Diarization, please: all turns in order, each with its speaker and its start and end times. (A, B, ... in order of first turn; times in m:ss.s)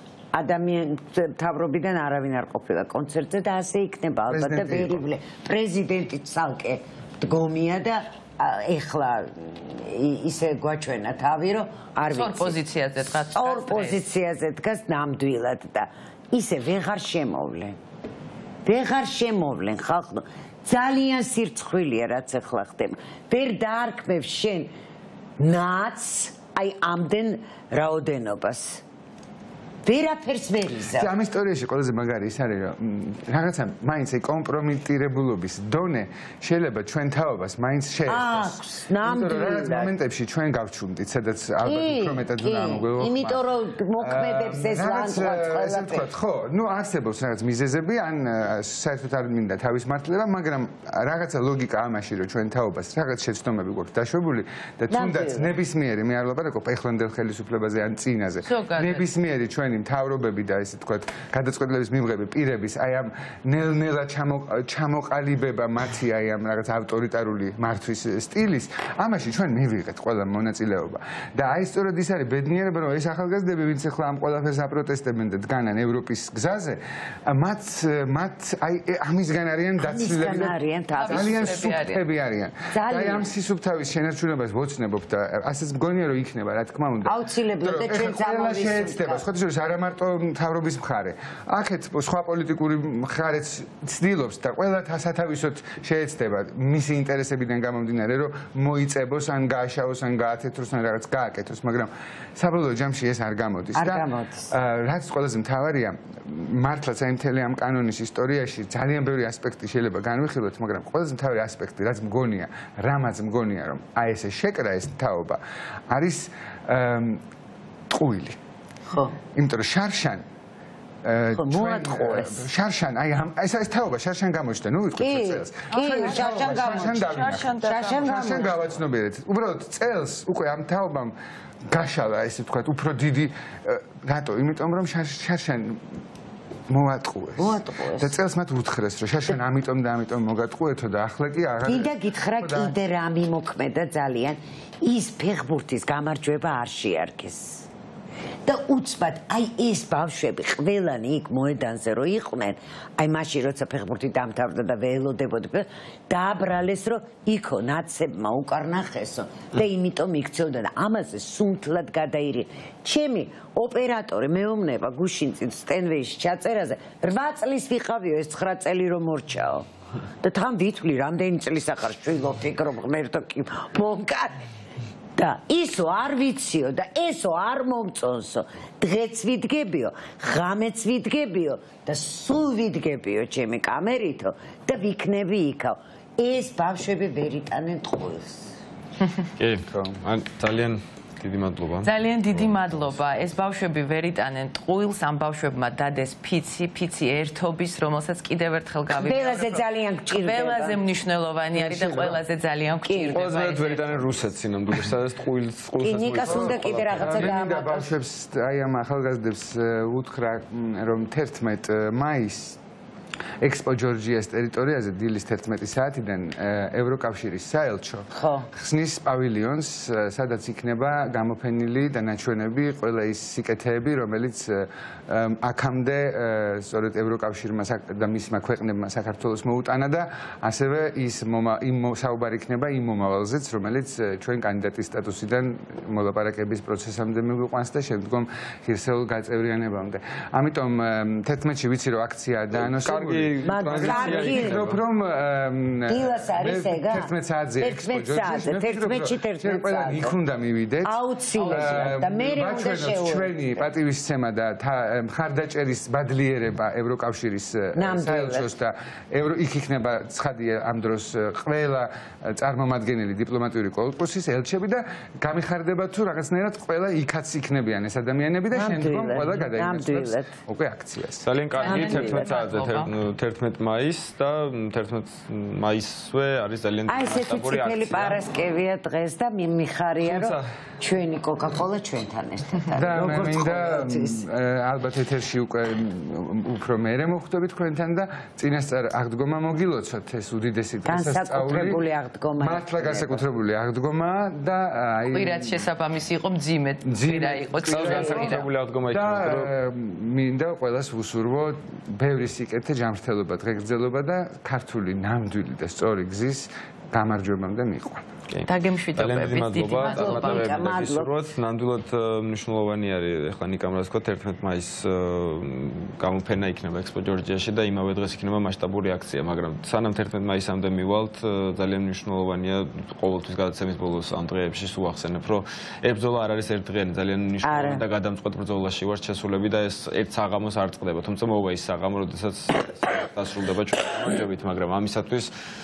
0:00.3-0:12.6 A
0:04.3-0:05.0 B
0:12.1-0:14.0 C
0:13.2-0:17.8 A
0:18.6-0:24.7 A
0:25.4-0:28.8 A
0:29.8-0:31.1 A
0:30.9-0:43.4 B
0:38.1-0:39.9 A
0:41.6-0:46.0 A
0:44.0-1:55.4 B
0:54.9-0:55.5 A
0:58.4-0:59.0 C
1:19.8-1:21.5 A
1:21.0-1:22.0 C
1:22.7-1:23.3 A
1:27.0-1:29.2 A
1:43.7-1:44.5 A
1:55.9-1:57.2 B
1:57.9-1:58.4 B
1:59.3-2:00.2 B
2:01.0-2:11.1 B
2:01.3-2:02.4 A
2:05.0-2:08.4 A
2:05.7-2:08.8 C
2:11.7-2:15.8 B
2:16.7-2:22.8 B
2:17.4-2:18.1 A
2:21.6-2:27.7 A
2:28.4-2:49.6 A
2:50.2-2:54.3 A
2:55.2-3:08.6 A
3:09.4-3:12.9 D
3:09.7-3:10.0 B
3:11.8-3:24.2 C
3:19.0-3:20.8 A
3:21.7-3:22.0 B
3:22.9-3:23.2 A
3:23.1-3:27.3 D
3:25.8-3:27.9 A
3:26.2-3:32.6 B
3:33.4-4:31.3 B
3:38.1-3:38.5 A
4:02.5-4:04.8 D
4:03.4-4:04.6 A
4:05.9-4:07.1 A
4:07.6-4:10.2 A
4:10.8-4:13.6 A
4:11.4-4:11.9 C
4:17.8-4:18.5 A
4:28.5-4:30.3 A
4:31.2-4:38.2 D
4:31.5-4:32.9 C
4:31.6-4:32.3 A
4:36.9-4:44.2 A
4:40.0-4:40.4 D
4:42.7-4:51.8 B
4:50.8-4:53.2 A
4:52.4-4:55.6 B
4:55.1-4:58.5 C
4:56.8-4:58.4 B
4:57.6-4:59.5 D
4:58.9-5:08.1 B
5:08.3-5:35.3 D
5:08.4-5:10.5 C
5:09.8-5:11.2 A
5:27.4-5:27.8 A